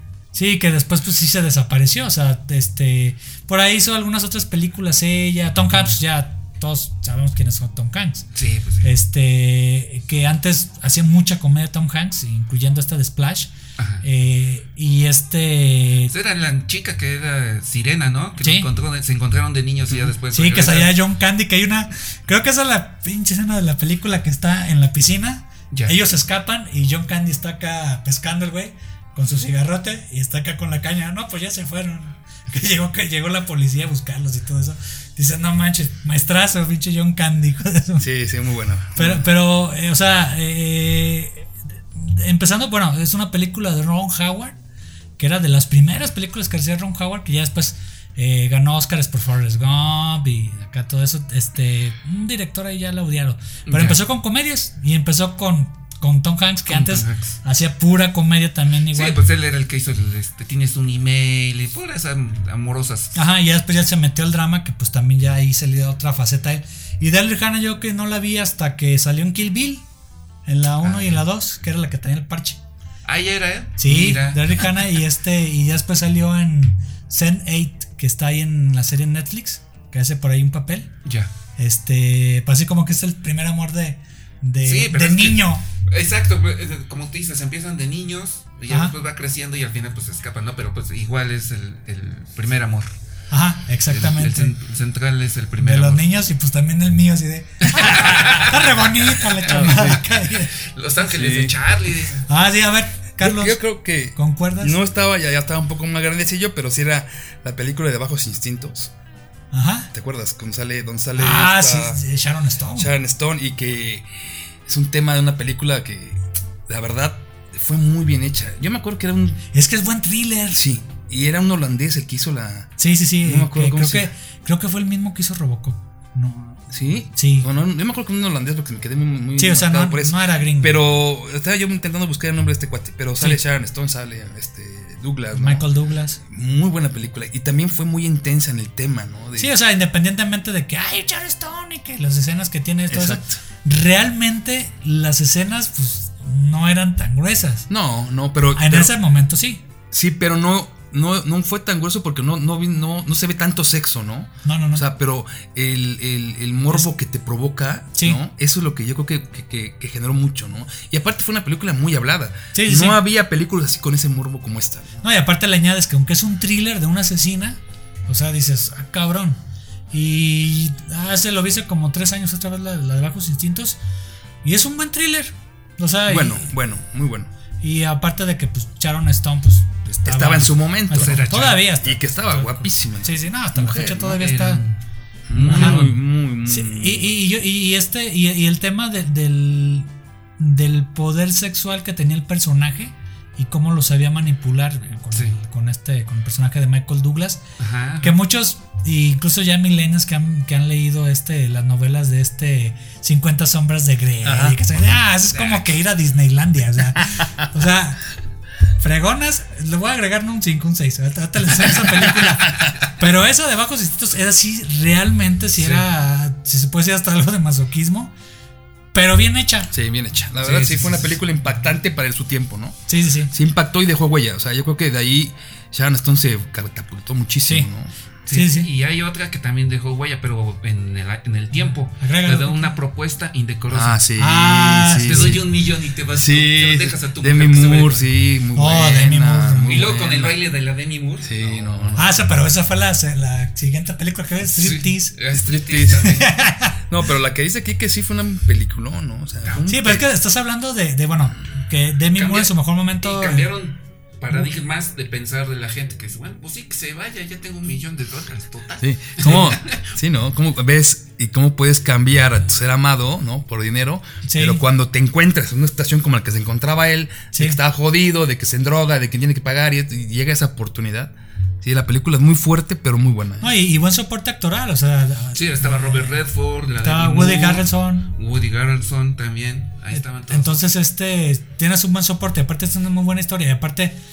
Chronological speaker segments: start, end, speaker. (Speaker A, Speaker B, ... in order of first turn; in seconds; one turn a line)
Speaker A: 0.3-8.2
Speaker B: 5.7-6.0
Speaker B: 8.3-8.9
Speaker A: 8.8-16.1
Speaker B: 13.8-14.0
Speaker B: 16.1-20.9
Speaker A: 18.4-18.7
Speaker A: 20.3-38.0
Speaker C: 38.0-39.3
Speaker A: 38.9-44.5
Speaker A: 45.2-59.2
Speaker B: 53.6-54.0
Speaker B: 56.7-57.4
Speaker B: 58.9-63.2
Speaker A: 63.1-69.8
Speaker A: 70.5-72.6
Speaker B: 70.8-71.2
Speaker B: 73.0-75.0
Speaker A: 73.8-80.9
Speaker B: 81.0-81.3
Speaker A: 81.6-85.6
Speaker B: 84.6-92.9
Speaker A: 93.3-94.5
Speaker B: 93.9-96.0
Speaker A: 95.6-100.5
Speaker B: 97.6-99.3
Speaker C: 99.4-100.0
Speaker B: 100.6-102.2
Speaker C: 101.0-101.6
Speaker A: 102.3-104.8
Speaker C: 103.2-108.9
Speaker A: 109.5-109.9
Speaker C: 109.9-112.0
Speaker A: 111.1-112.9
Speaker C: 112.7-119.4
Speaker A: 119.5-120.6
Speaker C: 120.5-124.1
Speaker A: 122.8-127.5
Speaker C: 126.7-135.7
Speaker A: 129.4-130.8
Speaker A: 135.3-136.2
Speaker C: 136.2-139.5
Speaker A: 139.4-147.7
Speaker C: 142.9-143.4
Speaker C: 147.7-148.9
Speaker A: 148.5-149.6
Speaker C: 149.9-165.0
Speaker A: 154.4-154.8
Speaker A: 157.9-158.2
Speaker A: 162.5-163.0
Speaker A: 165.0-169.4
Speaker A: 169.9-173.8
Speaker A: 174.4-176.5
Speaker C: 176.1-177.3
Speaker A: 177.6-184.6
Speaker C: 180.0-181.2
Speaker B: 180.9-181.7
Speaker C: 181.8-184.2
Speaker B: 184.2-184.8
Speaker C: 185.3-187.1
Speaker B: 185.3-185.9
Speaker A: 185.4-185.9
Speaker A: 186.4-197.4
Speaker B: 197.6-198.2
Speaker A: 198.0-208.1
Speaker C: 204.2-204.6
Speaker B: 205.3-205.7
Speaker A: 208.8-218.1
Speaker B: 215.6-215.8
Speaker A: 218.9-219.7
Speaker C: 219.7-222.8
Speaker B: 220.4-221.2
Speaker A: 222.9-223.3
Speaker C: 223.3-227.9
Speaker B: 228.3-234.0
Speaker A: 228.3-228.7
Speaker A: 232.0-232.8
Speaker C: 233.7-235.5
Speaker A: 234.2-235.4
Speaker B: 235.0-238.2
Speaker C: 236.1-240.4
Speaker A: 238.5-239.9
Speaker B: 239.7-242.0
Speaker C: 241.2-242.1
Speaker A: 241.9-245.1
Speaker B: 244.5-246.3
Speaker C: 245.3-246.2
Speaker A: 246.0-246.8
Speaker C: 246.9-250.1
Speaker A: 249.7-253.5
Speaker B: 252.2-259.9
Speaker C: 258.8-273.5
Speaker A: 264.2-264.6
Speaker A: 267.3-267.6
Speaker A: 273.4-276.2
Speaker B: 275.3-280.6
Speaker A: 276.8-278.1
Speaker A: 279.9-283.9